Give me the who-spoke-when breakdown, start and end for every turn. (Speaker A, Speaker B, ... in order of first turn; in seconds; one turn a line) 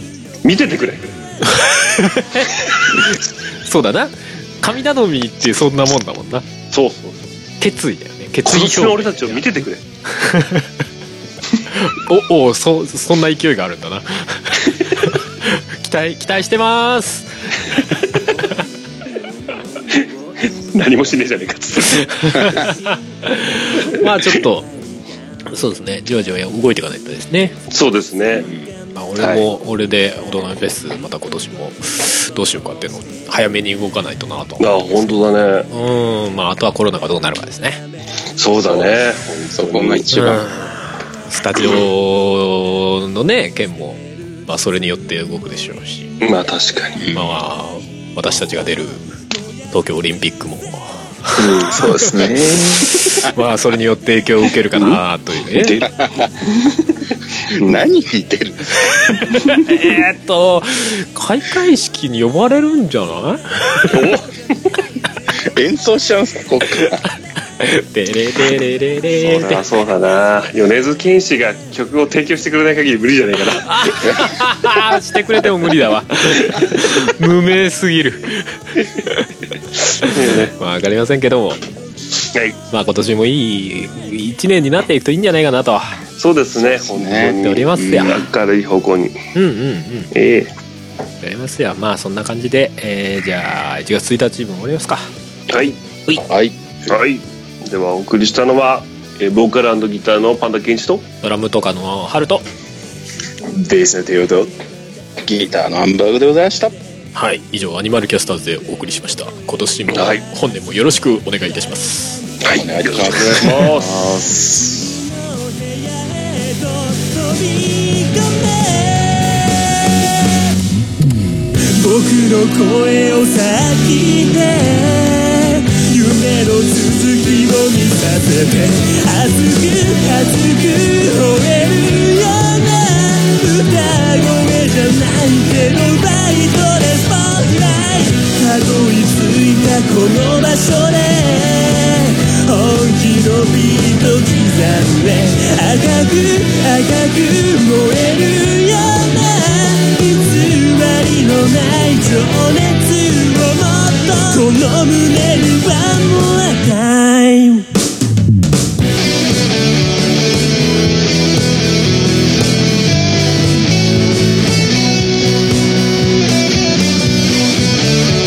Speaker A: 0.4-1.1
Speaker B: 1.4-6.5
Speaker A: 6.7-7.3
Speaker B: 7.6-9.4
Speaker A: 8.4-9.8
Speaker B: 10.1-10.7
Speaker B: 11.7-18.6
Speaker A: 19.9-22.6
Speaker B: 21.9-24.8
Speaker A: 23.9-24.4
Speaker B: 25.5-27.6
Speaker A: 27.7-28.5
Speaker B: 28.9-35.1
Speaker A: 29.1-29.5
Speaker A: 34.6-35.7
Speaker B: 35.7-37.8
Speaker A: 38.4-40.4
Speaker C: 38.6-39.0
Speaker C: 39.5-40.5
Speaker B: 40.1-46.1
Speaker A: 46.2-47.0
Speaker C: 47.0-47.4
Speaker B: 47.1-49.0
Speaker B: 49.7-55.9
Speaker A: 51.4-51.7
Speaker D: 51.5-53.3
Speaker A: 54.7-55.0
Speaker A: 55.5-56.8
Speaker C: 57.5-59.0
Speaker A: 57.5-57.8
Speaker B: 59.3-64.2
Speaker A: 63.9-64.3
Speaker C: 65.4-67.0
Speaker B: 67.6-69.7
Speaker A: 69.2-73.8
Speaker B: 73.6-79.3
Speaker A: 79.9-80.5
Speaker B: 80.0-81.6
Speaker B: 82.7-86.0
Speaker A: 86.2-89.2
Speaker C: 86.8-88.2
Speaker B: 87.2-88.2
Speaker B: 89.3-90.1
Speaker A: 90.1-90.5
Speaker B: 91.2-95.1
Speaker A: 95.5-95.8
Speaker C: 96.2-96.6
Speaker A: 96.9-101.0
Speaker B: 101.2-102.4
Speaker D: 103.5-104.5
Speaker C: 105.2-106.8
Speaker B: 107.1-112.2
Speaker A: 109.9-110.2
Speaker A: 112.4-114.0
Speaker C: 112.5-113.7
Speaker D: 113.5-114.9
Speaker E: 114.8-120.5
Speaker E: 121.7-157.7